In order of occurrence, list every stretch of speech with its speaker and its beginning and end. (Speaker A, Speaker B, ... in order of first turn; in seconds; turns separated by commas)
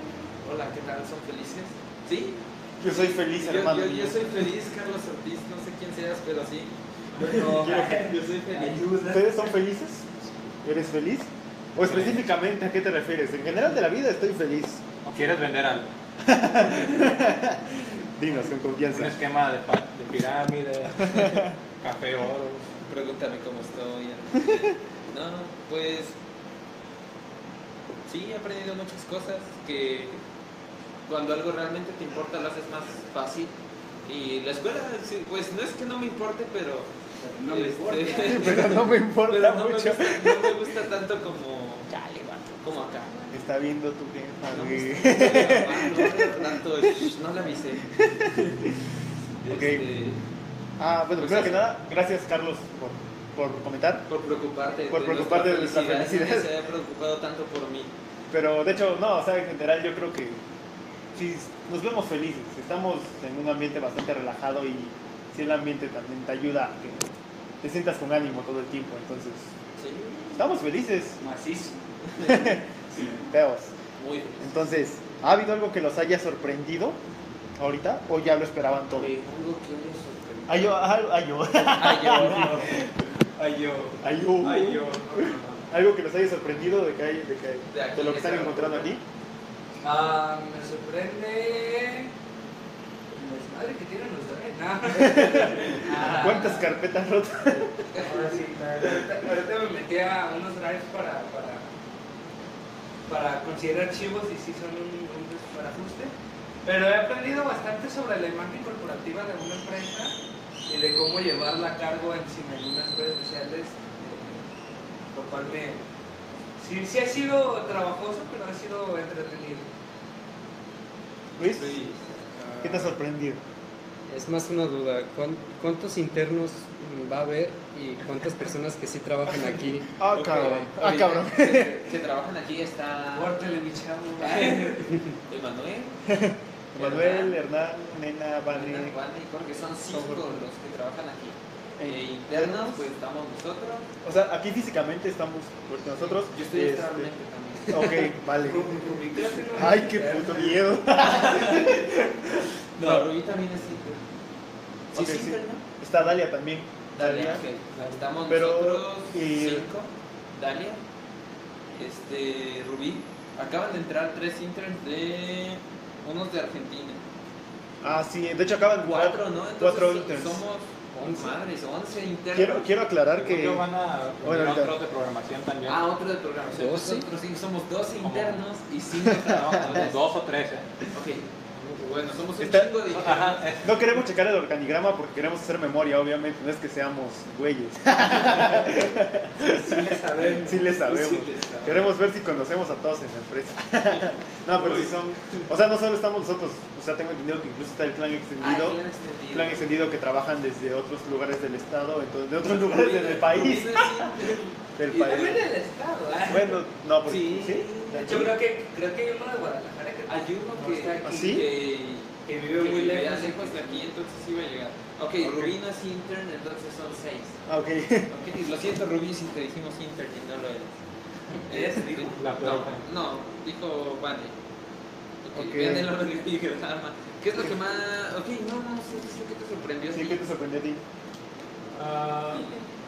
Speaker A: 0.4-8.9, Speaker B: 2.8-4.3, Speaker C: 7.2-9.5, Speaker B: 7.5-8.1, Speaker B: 9.1-10.1, Speaker B: 10.6-14.8, Speaker D: 11.8-12.2, Speaker D: 15.0-15.9, Speaker B: 16.2-19.1, Speaker D: 18.8-22.7, Speaker B: 21.0-21.4, Speaker A: 22.8-26.1, Speaker A: 28.1-30.2, Speaker A: 31.1-33.5, Speaker A: 34.0-43.2, Speaker C: 37.2-38.8, Speaker B: 38.3-40.6, Speaker B: 43.3-46.5, Speaker A: 44.5-48.6, Speaker B: 47.9-48.4, Speaker A: 49.4-50.2, Speaker B: 49.5-49.9, Speaker B: 50.8-54.0, Speaker A: 51.2-51.6, Speaker A: 54.1-57.9, Speaker B: 54.9-56.5, Speaker B: 58.3-60.4, Speaker B: 61.1-67.1, Speaker B: 67.6-69.5, Speaker A: 69.8-70.4, Speaker B: 70.3-71.2, Speaker C: 71.2-71.8, Speaker A: 72.1-73.2, Speaker B: 72.2-72.6, Speaker B: 73.2-73.7, Speaker A: 74.0-74.5, Speaker B: 74.4-77.0, Speaker B: 77.6-79.1, Speaker A: 78.9-80.8, Speaker B: 80.5-82.9, Speaker A: 81.7-85.7, Speaker B: 84.0-89.0, Speaker A: 87.7-89.0, Speaker C: 89.8-92.1, Speaker C: 93.1-96.7, Speaker B: 94.9-97.8, Speaker C: 97.9-101.7, Speaker C: 103.1-106.1, Speaker C: 106.6-110.1, Speaker C: 110.7-114.4, Speaker C: 115.1-115.8, Speaker C: 116.6-119.7, Speaker B: 121.4-121.8, Speaker A: 121.5-121.9, Speaker E: 122.5-122.9, Speaker B: 122.6-123.4, Speaker E: 124.1-129.9, Speaker B: 130.0-131.9, Speaker A: 130.1-133.4, Speaker C: 133.1-135.0, Speaker A: 134.2-136.0, Speaker B: 136.1-138.9, Speaker A: 136.8-137.4, Speaker A: 138.5-143.9, Speaker B: 139.9-140.3, Speaker B: 141.8-142.9, Speaker B: 144.0-147.1, Speaker A: 146.0-148.1, Speaker B: 147.7-148.9, Speaker C: 148.4-150.6, Speaker B: 149.5-152.2, Speaker A: 151.0-151.8, Speaker A: 152.8-154.0, Speaker B: 152.8-153.1, Speaker A: 154.9-155.6, Speaker B: 154.9-157.4, Speaker A: 156.9-160.8, Speaker B: 158.3-159.7, Speaker A: 161.8-167.0, Speaker B: 167.8-170.4, Speaker A: 168.8-172.7, Speaker E: 170.9-171.3, Speaker B: 172.3-173.7, Speaker D: 173.1-175.8, Speaker B: 174.2-174.8, Speaker A: 175.7-180.0, Speaker E: 176.5-177.1, Speaker D: 178.0-178.4, Speaker D: 179.1-180.7, Speaker B: 179.5-179.8, Speaker A: 180.9-183.5, Speaker B: 182.4-182.7, Speaker D: 182.9-183.8, Speaker B: 183.6-204.0, Speaker C: 189.4-191.6, Speaker A: 190.8-191.9, Speaker A: 194.5-194.9, Speaker A: 198.4-199.8, Speaker A: 202.4-204.5, Speaker B: 204.8-205.4, Speaker C: 204.9-206.6, Speaker B: 206.3-208.3, Speaker A: 207.0-208.3, Speaker C: 208.0-211.3, Speaker A: 210.1-217.4, Speaker B: 211.0-211.5, Speaker C: 212.2-213.9, Speaker B: 217.5-218.1, Speaker A: 218.1-220.7, Speaker A: 221.4-224.3, Speaker C: 221.5-222.1, Speaker D: 222.2-222.8, Speaker A: 225.2-230.2, Speaker B: 225.3-225.9, Speaker B: 229.9-230.8, Speaker D: 231.7-232.5